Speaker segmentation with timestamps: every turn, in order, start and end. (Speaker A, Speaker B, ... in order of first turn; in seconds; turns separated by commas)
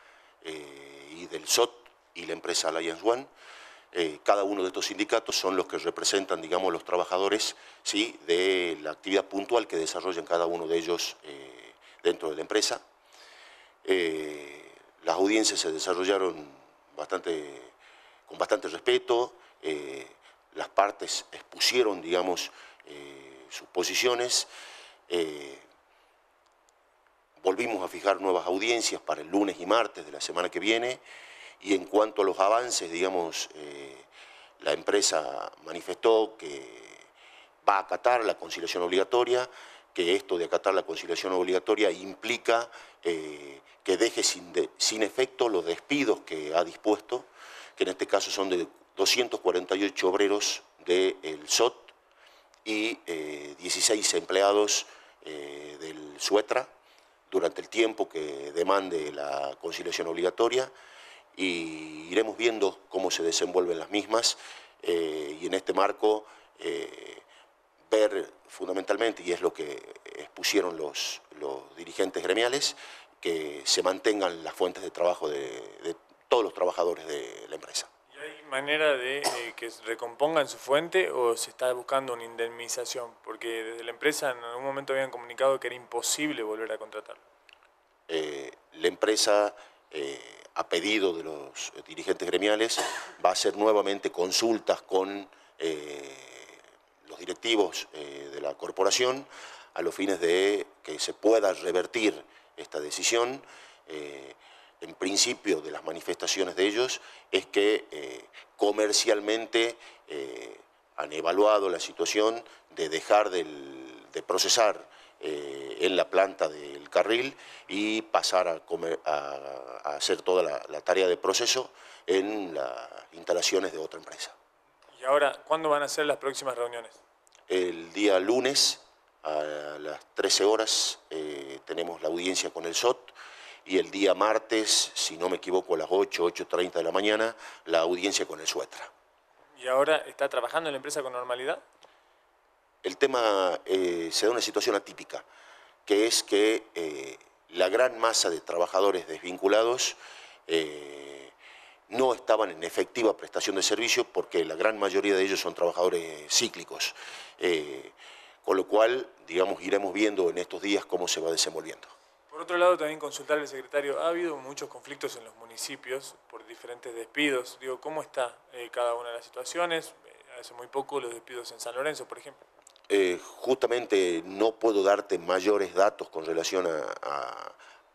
Speaker A: 0.4-3.3, Speaker A: 3.9-12.8, Speaker A: 13.8-17.7, Speaker A: 18.3-24.5, Speaker A: 25.1-25.7, Speaker A: 27.4-31.0, Speaker A: 31.6-34.1, Speaker A: 34.6-37.1, Speaker A: 37.6-47.3, Speaker A: 47.8-51.9, Speaker A: 52.6-56.7, Speaker A: 57.3-60.7, Speaker A: 61.4-67.2, Speaker A: 67.9-77.9, Speaker B: 78.1-87.2, Speaker A: 88.1-124.3, Speaker B: 125.0-127.0, Speaker A: 127.5-133.1, Speaker A: 133.7-138.9, Speaker B: 139.6-141.6, Speaker A: 142.8-145.2, Speaker A: 145.9-150.0, Speaker A: 150.5-151.3, Speaker A: 151.9-161.9, Speaker B: 162.3-172.4, Speaker A: 172.9-177.6